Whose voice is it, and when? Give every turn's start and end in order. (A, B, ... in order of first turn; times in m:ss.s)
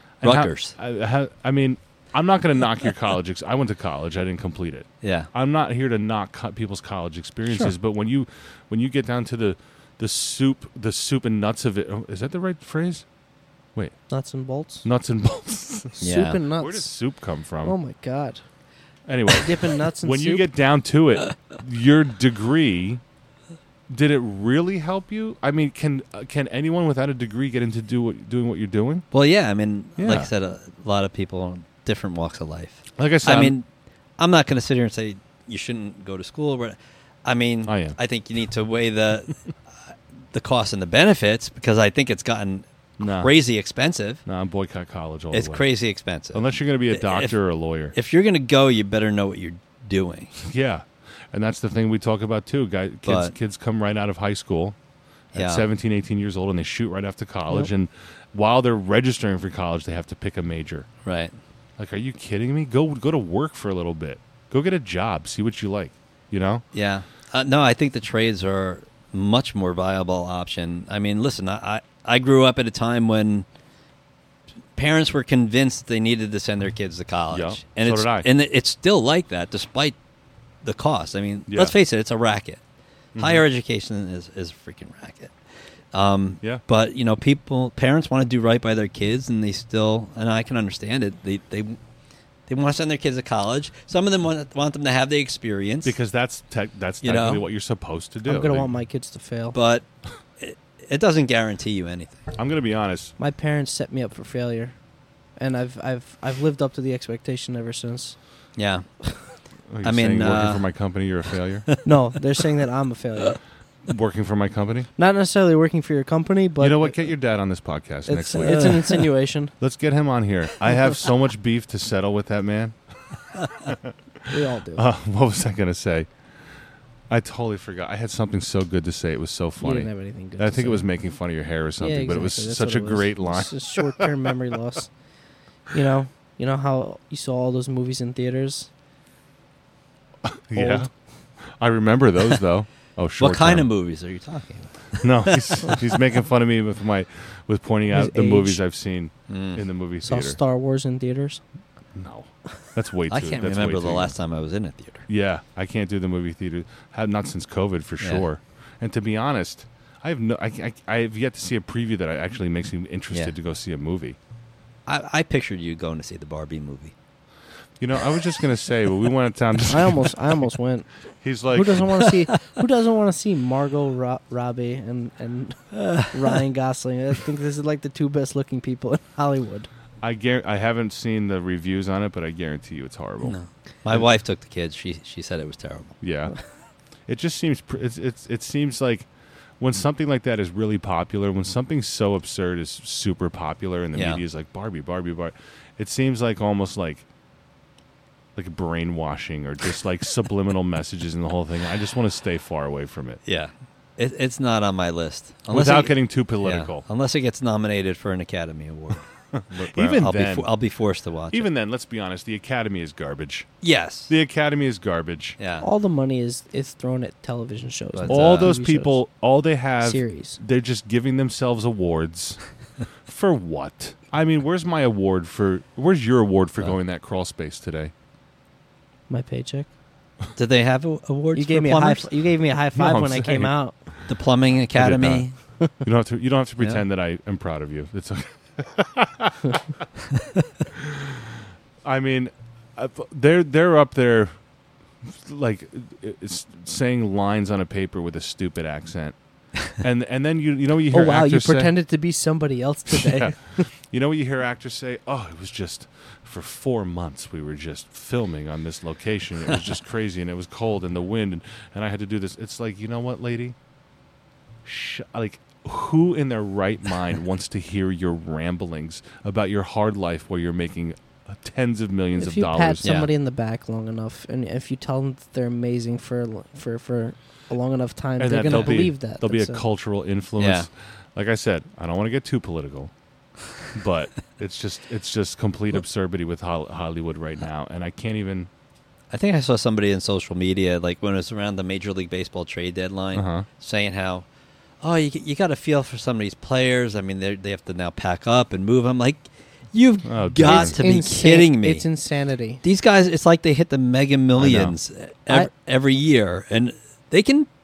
0:00.2-0:13.0 A
0:00.2-0:00.8 B
0:05.0-0:05.3 B
0:14.1-0:14.8 C
0:14.8-0:16.0 A
0:16.0-0:16.9 C
0:16.0-0:16.4 B
0:16.6-0:17.8 A
0:17.6-0:18.4 C
0:19.1-0:23.0 A
0:19.3-0:20.5 C
0:23.9-0:29.1 A
0:29.1-0:33.6 B
0:30.0-0:30.3 A
0:33.0-0:33.6 A
0:34.2-0:39.4 B
0:37.7-0:38.0 A
0:40.3-0:44.2 B
0:43.0-0:43.3 A
0:44.3-0:45.6 A
0:45.3-0:47.4 B
0:46.3-0:48.0 A
0:48.0-0:50.4 B
0:50.4-0:54.8 A
0:53.1-0:53.3 B
0:55.3-1:00.9 A
0:55.3-0:55.6 B
1:01.0-1:01.3 B
1:01.8-1:06.6 A
1:06.7-1:13.5 B
1:14.8-1:20.0 B
1:17.3-1:18.3 A
1:20.6-1:22.6 B
1:21.5-1:21.8 A
1:23.2-1:23.4 A
1:23.2-1:25.3 B
1:25.9-1:31.8 B
1:32.5-1:36.0 B
1:35.8-1:38.7 A
1:37.0-1:37.4 B
1:38.2-1:39.6 C
1:39.5-1:39.8 B
1:40.4-1:42.3 B
1:42.4-1:43.1 A
1:43.2-1:44.8 C
1:45.4-1:48.2 C
1:48.6-1:48.9 B
1:49.7-1:51.7 A
1:49.8-1:50.7 B
1:51.8-1:53.4 C
1:53.9-1:54.9 A
1:55.0-1:57.0 C
1:56.6-1:58.8 A
1:58.1-1:59.5 C
1:58.4-1:59.0 B
1:59.6-2:02.8 A
2:03.6-2:03.9 A
2:04.3-2:04.9 C
2:04.7-2:06.1 A
2:07.1-2:14.1 A
2:09.6-2:10.9 C
2:11.8-2:14.9 C
2:15.7-2:18.7 C
2:20.2-2:23.7 A
2:20.6-2:20.9 C
2:23.2-2:25.8 B
2:25.0-2:30.4 A
2:27.9-2:28.6 C
2:29.3-2:29.6 B
2:30.0-2:31.4 C
2:32.0-2:34.2 A
2:33.1-2:35.1 B
2:35.1-2:44.2 A
2:44.9-2:46.9 B
2:47.8-2:50.3 A
2:49.7-2:50.9 C
2:51.2-2:52.1 A
2:51.5-2:59.7 C
2:55.7-2:56.4 B
3:00.0-3:03.4 A
3:03.2-3:06.0 B
3:06.0-3:06.4 A
3:07.1-3:09.1 A
3:09.6-3:17.0 A
3:13.9-3:14.2 B
3:18.4-3:23.2 A
3:23.3-3:31.5 B
3:25.5-3:26.8 A
3:29.3-3:30.5 A
3:31.3-3:33.5 A
3:33.6-3:34.1 B
3:34.1-3:35.4 A
3:35.4-3:35.7 B
3:35.6-3:39.0 C
3:38.0-3:38.5 B
3:38.1-3:42.4 A
3:39.8-3:40.4 C
3:43.1-3:47.9 A
3:49.1-3:49.7 C
3:50.4-3:52.1 B
3:51.4-3:53.8 C
3:52.8-3:53.6 A
3:54.1-3:55.4 B
3:54.7-3:55.3 A
3:55.8-3:59.6 A
4:00.2-4:00.4 B
4:00.7-4:04.3 A
4:05.0-4:09.2 A
4:09.7-4:11.7 A
4:10.9-4:13.7 C
4:12.9-4:13.3 A
4:13.9-4:23.6 A
4:24.6-4:32.9 A
4:32.2-4:39.6 C
4:32.8-4:33.1 B
4:38.2-4:42.9 A
4:38.5-4:38.8 B
4:40.4-4:40.7 B
4:43.7-4:48.5 A
4:49.1-4:54.3 B
4:53.1-4:53.5 A
4:54.8-5:01.9 B
5:00.0-5:00.8 A
5:00.4-5:02.6 C
5:02.6-5:07.5 B
5:04.4-5:04.8 A